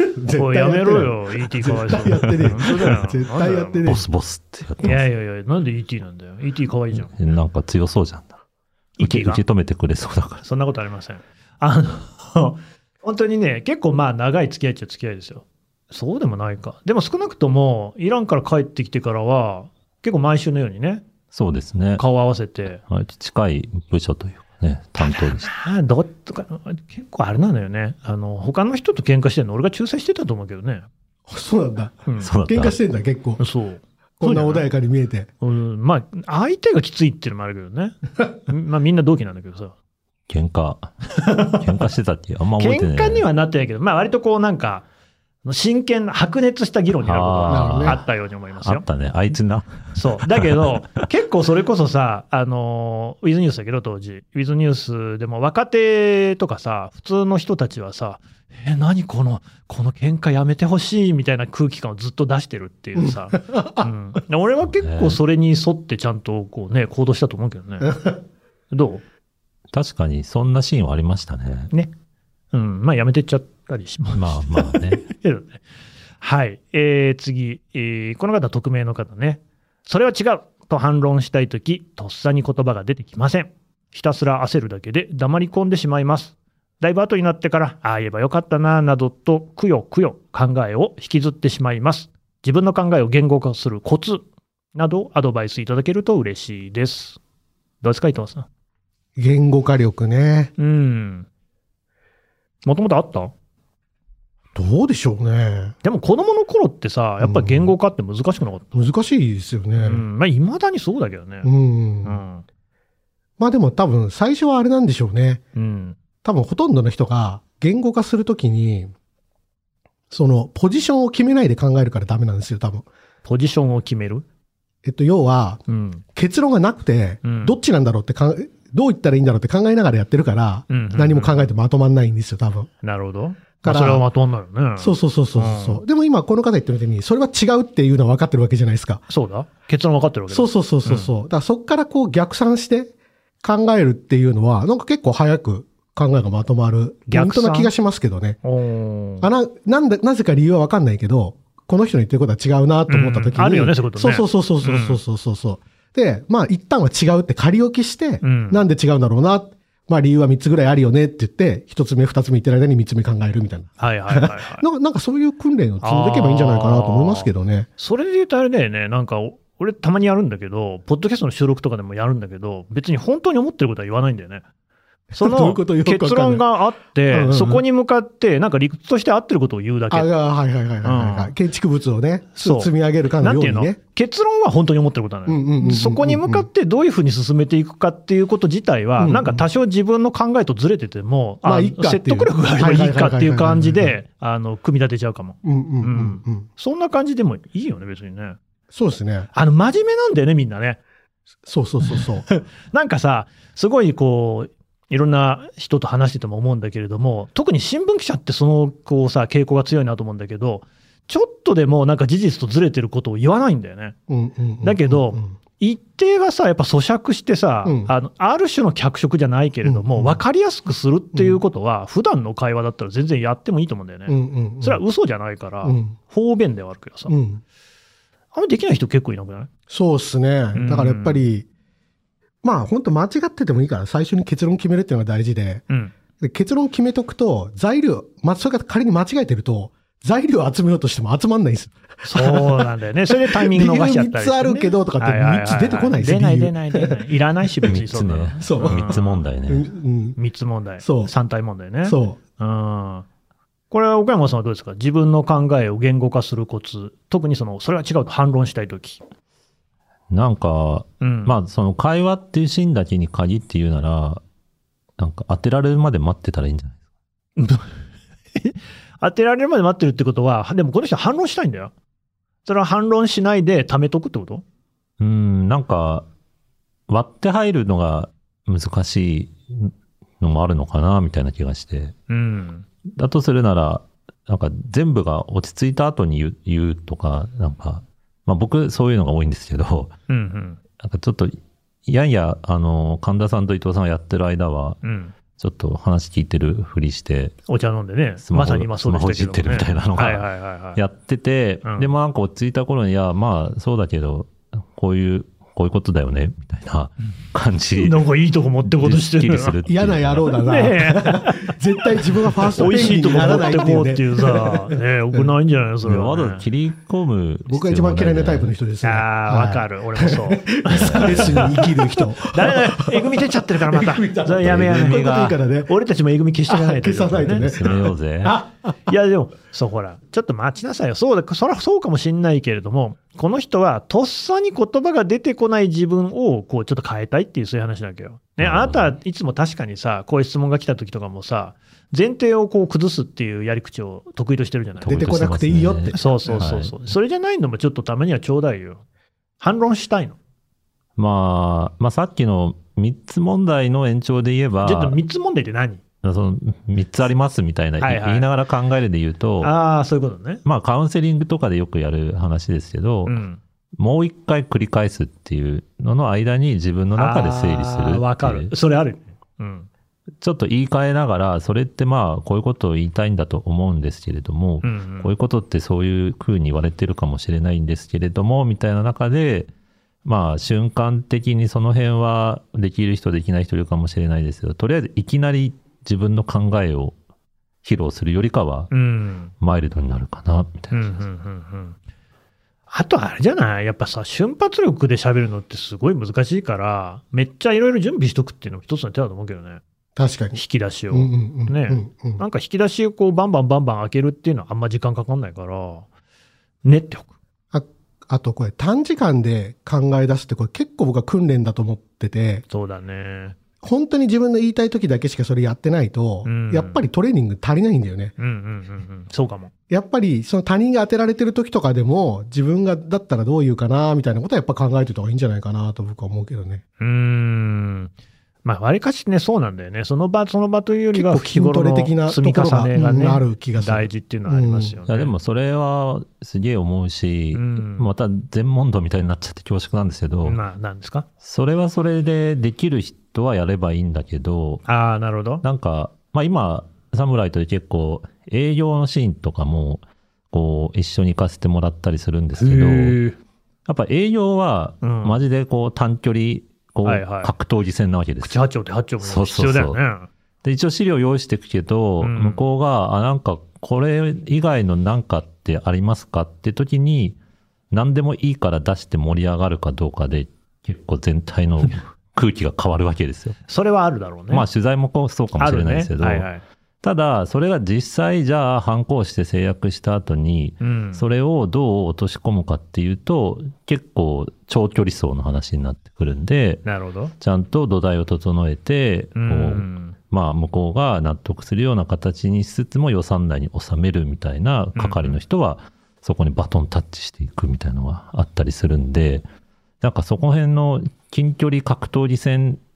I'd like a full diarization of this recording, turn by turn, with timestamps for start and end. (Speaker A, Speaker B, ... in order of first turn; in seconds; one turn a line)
Speaker A: 0.2-4.0
Speaker B: 0.3-3.9
Speaker C: 3.9-5.0
Speaker B: 4.8-7.1
Speaker C: 7.0-8.3
Speaker B: 9.0-9.4
Speaker C: 9.0-10.4
Speaker B: 10.4-21.0
Speaker C: 21.3-22.0
Speaker B: 22.0-22.8
Speaker C: 22.9-25.5
Speaker B: 25.0-30.9
Speaker A: 31.3-33.4
Speaker B: 32.0-32.3
Speaker C: 32.2-32.8
Speaker B: 33.4-34.7
Speaker A: 34.2-35.3
Speaker B: 35.4-39.7
Speaker C: 40.3-43.2
Speaker B: 41.2-41.6
Speaker B: 42.6-44.9
Speaker B: 45.4-48.8
Speaker C: 47.0-48.0
Speaker A: 47.5-48.0
Speaker C: 48.6-50.6
Speaker B: 49.9-67.9
Speaker A: 63.0-63.9
Speaker C: 64.7-65.2
Speaker A: 67.8-68.1
Speaker B: 68.7-69.0
Speaker C: 69.7-71.7
Speaker B: 72.5-75.6
Speaker C: 74.1-75.0
Speaker B: 76.2-97.2
Speaker B: 97.8-98.5
Speaker A: 99.2-100.5
Speaker B: 100.6-101.3
Speaker B: 102.6-103.3
Speaker A: 104.5-105.7
Speaker B: 105.8-108.8
Speaker A: 107.2-107.7
Speaker A: 108.7-110.0
Speaker B: 109.8-111.5
Speaker A: 111.4-112.2
Speaker B: 112.0-112.4
Speaker A: 113.4-115.4
Speaker B: 115.5-116.0
Speaker A: 116.2-118.9
Speaker A: 120.1-122.9
Speaker B: 123.2-124.2
Speaker A: 124.8-125.6
Speaker B: 125.7-126.0
Speaker A: 126.1-132.7
Speaker B: 127.2-127.5
Speaker B: 130.7-131.4
Speaker B: 132.8-135.8
Speaker A: 133.6-134.0
Speaker A: 134.8-139.0
Speaker B: 139.1-141.1
Speaker A: 140.3-142.9
Speaker A: 143.4-148.4
Speaker B: 147.1-147.7
Speaker B: 148.4-149.3
Speaker A: 149.2-167.7
Speaker B: 152.9-155.0
Speaker B: 158.2-158.6
Speaker B: 163.8-164.6
Speaker B: 165.8-174.4
Speaker A: 175.1-176.4
Speaker B: 175.1-180.1
Speaker A: 177.1-177.6
Speaker A: 179.9-183.8
Speaker B: 180.8-181.3
Speaker B: 182.3-198.4
Speaker A: 185.2-186.5
Speaker A: 189.0-189.4
Speaker A: 191.4-193.9
Speaker A: 195.4-196.5
Speaker A: 198.7-199.3
Speaker B: 199.3-200.8
Speaker A: 201.4-202.2
Speaker B: 201.9-213.9
Speaker A: 214.1-215.3
Speaker B: 214.6-227.2
Speaker A: 217.6-217.9
Speaker A: 219.6-220.2
Speaker A: 221.1-221.4
Speaker A: 224.1-224.8
Speaker A: 225.6-225.9
Speaker A: 227.1-227.4
Speaker B: 228.3-229.5
Speaker A: 229.7-231.4
Speaker B: 230.5-231.2
Speaker A: 232.4-235.6
Speaker A: 236.2-247.0
Speaker B: 242.0-249.2
Speaker C: 247.7-249.7
Speaker A: 248.4-250.2
Speaker B: 250.2-253.1
Speaker A: 250.8-251.1
Speaker A: 251.8-252.2
Speaker B: 253.7-259.0
Speaker C: 260.1-264.2
Speaker B: 261.0-261.3
Speaker C: 265.0-266.8
Speaker B: 267.4-267.7
Speaker B: 268.4-271.7
Speaker B: 272.4-274.4
Speaker C: 275.0-276.1
Speaker C: 276.9-281.9
Speaker B: 282.1-282.7
Speaker C: 282.9-289.9
Speaker B: 290.1-290.6
Speaker C: 290.8-294.8
Speaker B: 294.8-295.1
Speaker C: 295.4-297.4
Speaker B: 297.5-300.8
Speaker C: 298.2-308.1
Speaker B: 307.8-309.5
Speaker C: 308.6-310.4
Speaker A: 309.7-315.2
Speaker B: 310.4-311.5
Speaker B: 312.5-316.4
Speaker C: 315.8-318.5
Speaker A: 317.5-325.7
Speaker B: 318.8-325.1
Speaker C: 320.7-321.4
Speaker C: 324.4-325.4
Speaker B: 325.7-327.9
Speaker A: 326.5-327.6
Speaker C: 327.3-328.4
Speaker A: 328.2-328.5
Speaker B: 328.9-344.9
Speaker C: 338.4-338.9
Speaker C: 344.8-346.7
Speaker A: 344.9-346.4
Speaker B: 345.9-348.8
Speaker B: 349.4-350.2
Speaker C: 351.0-355.0
Speaker B: 354.6-355.8
Speaker C: 356.0-359.5
Speaker B: 357.8-358.3
Speaker B: 359.4-360.4
Speaker C: 360.4-363.2
Speaker B: 363.1-363.4
Speaker C: 363.8-368.5
Speaker B: 366.9-369.7
Speaker C: 370.2-379.5
Speaker B: 374.6-375.1
Speaker C: 380.0-386.9
Speaker C: 387.6-388.7
Speaker B: 388.7-389.3
Speaker C: 389.4-391.0
Speaker B: 390.7-391.8
Speaker B: 392.7-399.6
Speaker A: 399.9-400.4
Speaker B: 400.3-405.9
Speaker A: 400.9-402.2
Speaker B: 406.6-407.1
Speaker A: 407.5-412.4
Speaker B: 412.5-413.3
Speaker A: 413.6-418.1
Speaker B: 416.2-416.8
Speaker B: 418.2-419.5
Speaker A: 419.7-426.6
Speaker B: 426.8-427.9
Speaker B: 428.4-435.1
Speaker A: 430.9-434.8
Speaker C: 434.9-440.4
Speaker B: 437.3-437.9
Speaker B: 440.2-441.1
Speaker C: 441.2-444.6
Speaker B: 444.6-445.4
Speaker C: 445.4-453.0
Speaker B: 452.4-453.2
Speaker C: 453.6-458.4
Speaker B: 454.8-455.2
Speaker B: 456.8-457.3
Speaker B: 458.2-460.1
Speaker C: 459.0-459.8
Speaker C: 460.4-467.2
Speaker B: 462.0-462.4
Speaker C: 467.7-473.4
Speaker B: 473.5-474.4
Speaker C: 474.3-476.3
Speaker B: 475.4-476.4
Speaker C: 476.8-486.6
Speaker B: 480.6-481.0
Speaker B: 486.6-487.1
Speaker C: 487.2-499.2
Speaker B: 489.1-489.9
Speaker B: 494.8-495.2
Speaker C: 499.8-502.6